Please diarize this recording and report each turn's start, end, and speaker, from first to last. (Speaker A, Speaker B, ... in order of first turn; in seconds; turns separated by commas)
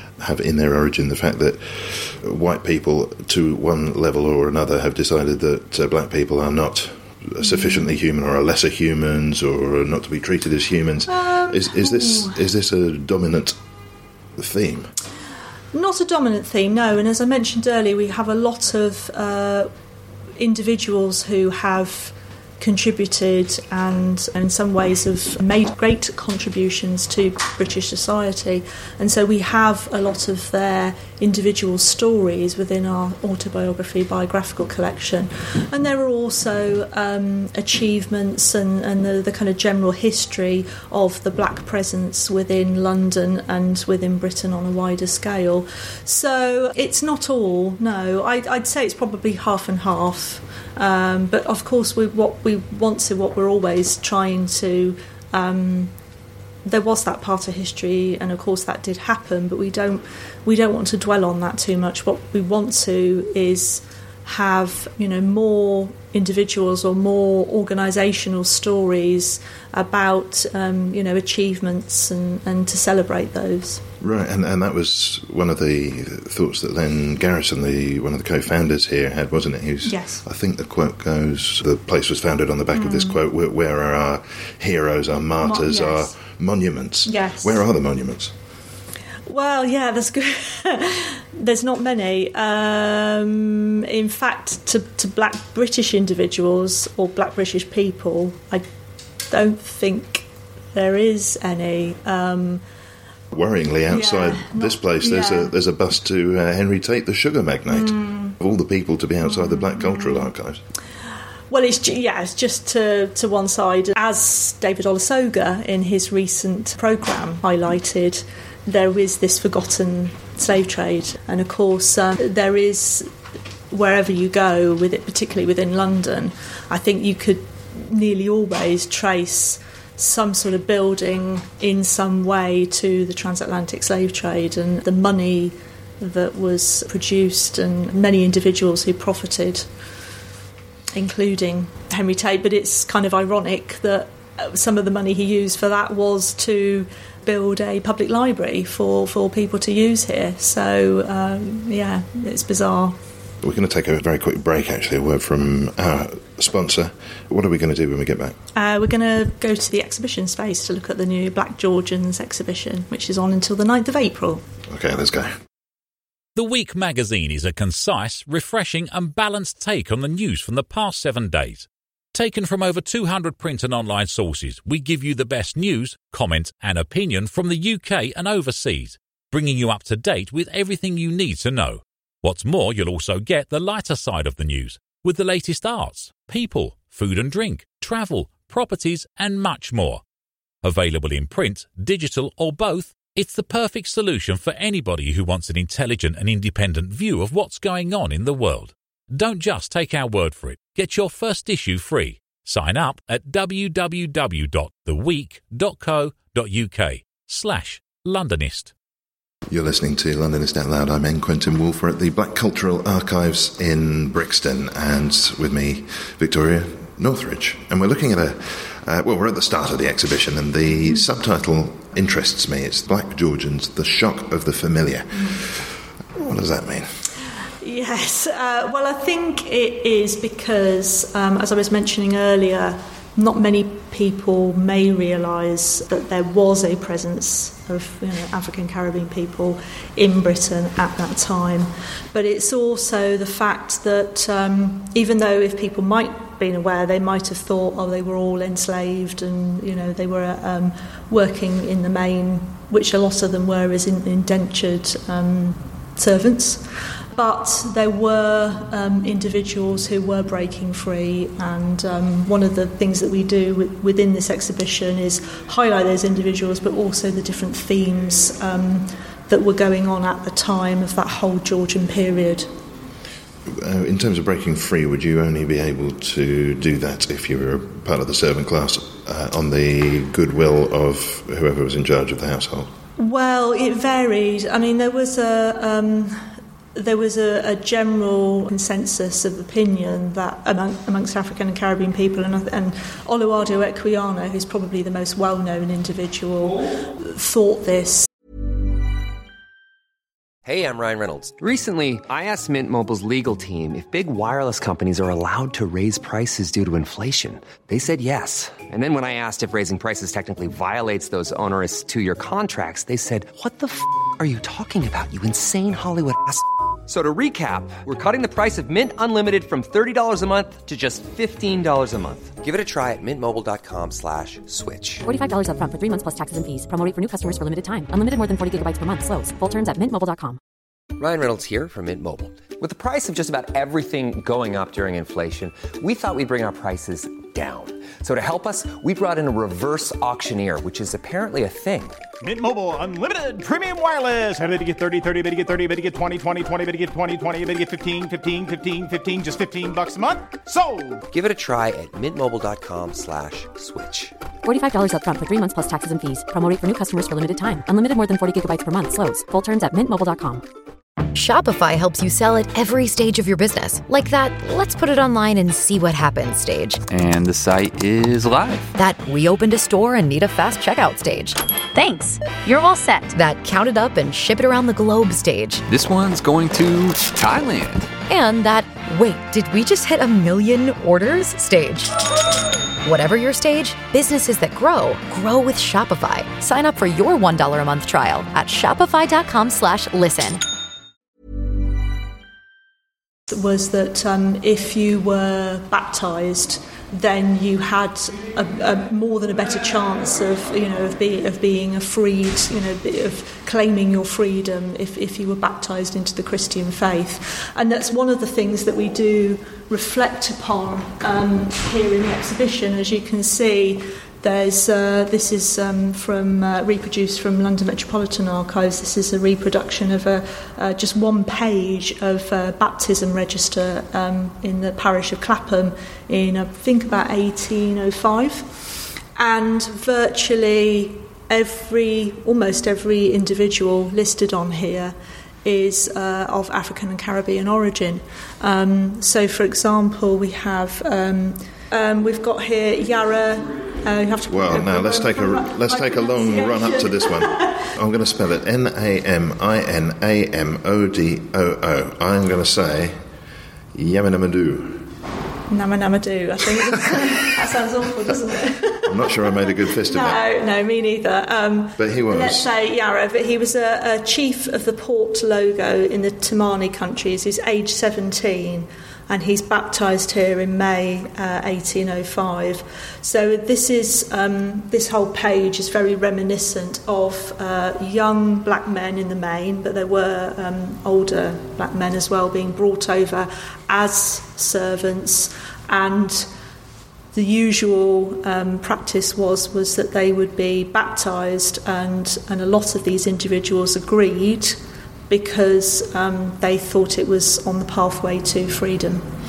Speaker A: 0.2-13.6, Speaker B: 7.4-7.8, Speaker B: 11.1-12.4, Speaker A: 14.4-14.9, Speaker B: 15.7-19.7, Speaker B: 20.4-55.9, Speaker B: 56.6-73.8, Speaker A: 74.0-88.3, Speaker B: 79.8-80.2, Speaker B: 82.7-83.2, Speaker B: 85.4-86.1, Speaker B: 87.0-87.6, Speaker B: 89.3-98.7, Speaker B: 99.3-102.6, Speaker A: 103.3-110.6, Speaker B: 103.9-105.5, Speaker B: 107.7-108.4, Speaker B: 109.2-110.3, Speaker B: 111.5-123.1, Speaker B: 123.7-139.7, Speaker B: 140.9-152.9, Speaker A: 153.4-158.4, Speaker B: 158.5-164.4, Speaker A: 164.7-165.4, Speaker C: 166.3-190.0, Speaker C: 190.6-208.7, Speaker A: 209.5-226.9, Speaker B: 227.6-272.5, Speaker A: 273.4-282.7, Speaker B: 283.0-298.1, Speaker D: 300.4-325.0, Speaker E: 325.0-330.4, Speaker D: 330.9-342.0, Speaker F: 342.2-351.0, Speaker D: 351.1-354.1, Speaker E: 354.4-360.4, Speaker G: 361.1-366.8, Speaker H: 366.9-368.7, Speaker G: 368.8-375.6, Speaker H: 375.6-377.9, Speaker G: 378.1-381.9, Speaker G: 382.8-390.4, Speaker B: 393.3-447.7, Speaker A: 444.3-453.0, Speaker A: 453.7-454.9, Speaker B: 455.5-486.3, Speaker A: 458.9-460.2, Speaker A: 461.8-462.4, Speaker B: 487.1-494.6, Speaker B: 495.1-499.0